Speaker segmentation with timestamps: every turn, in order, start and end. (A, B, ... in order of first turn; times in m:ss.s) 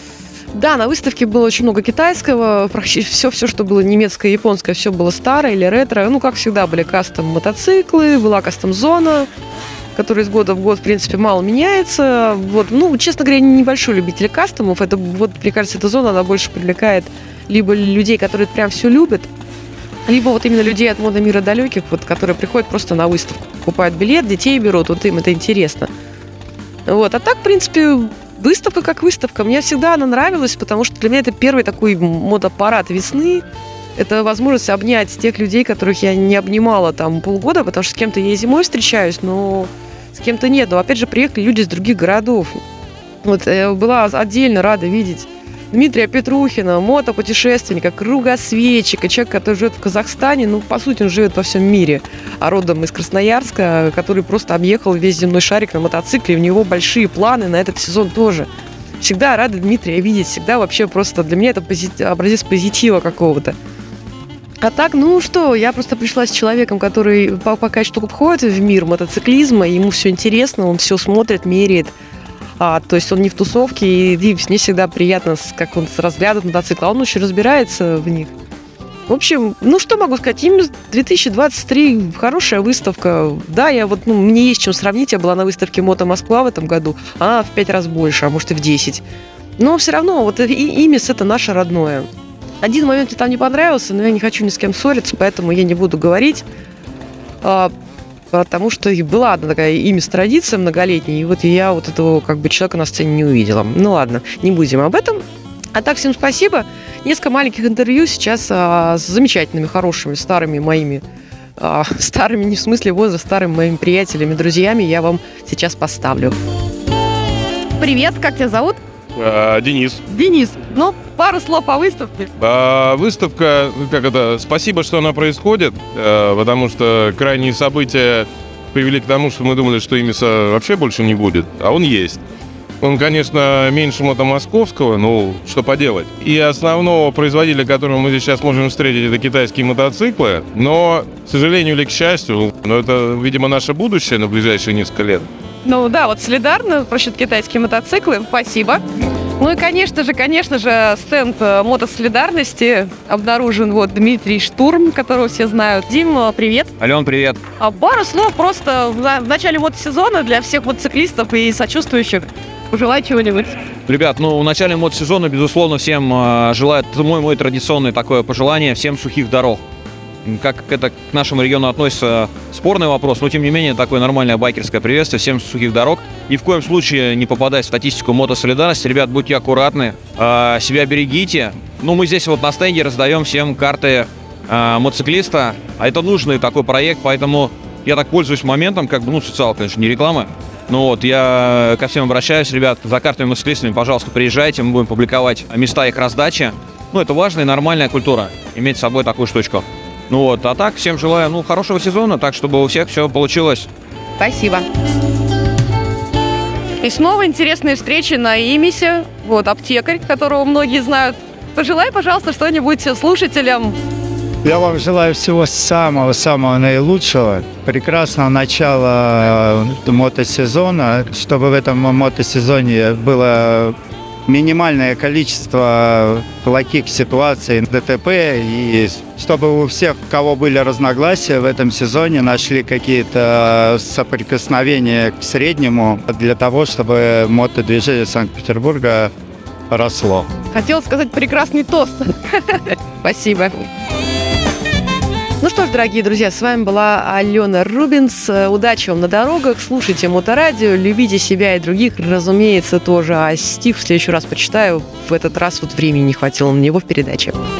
0:00.5-0:09.3 A
0:10.0-0:19.3 A
0:20.1-0:25.9 A
0:26.9-0:33.4 A
0:34.0-0:42.6 A
0:43.2-0:58.5 A
0:59.0-1:03.6 A
1:04.6-1:12.0 A
1:12.6-1:18.3 A
1:19.1-1:29.0 A
1:29.6-1:32.1 A
1:32.6-1:36.4 A
1:37.4-1:37.7 A
1:38.3-1:45.2 A
1:45.8-1:51.0 A
1:51.6-1:56.4 A
1:57.8-1:58.8 A
1:59.2-2:00.0 B
2:00.1-2:02.3 A
2:02.4-2:12.2 B
2:12.8-2:25.3 B
2:25.6-2:28.8 A
2:29.4-2:36.7 A
2:36.8-2:37.4 C
2:37.6-2:43.6 A
2:43.9-2:49.6 C
2:50.2-3:23.7 C
3:24.2-3:24.6 A
3:26.8-3:33.8 A
3:34.4-3:43.8 D
3:44.3-3:59.1 D
3:59.7-4:00.3 D
4:00.5-4:03.6 A
4:05.4-4:17.4 A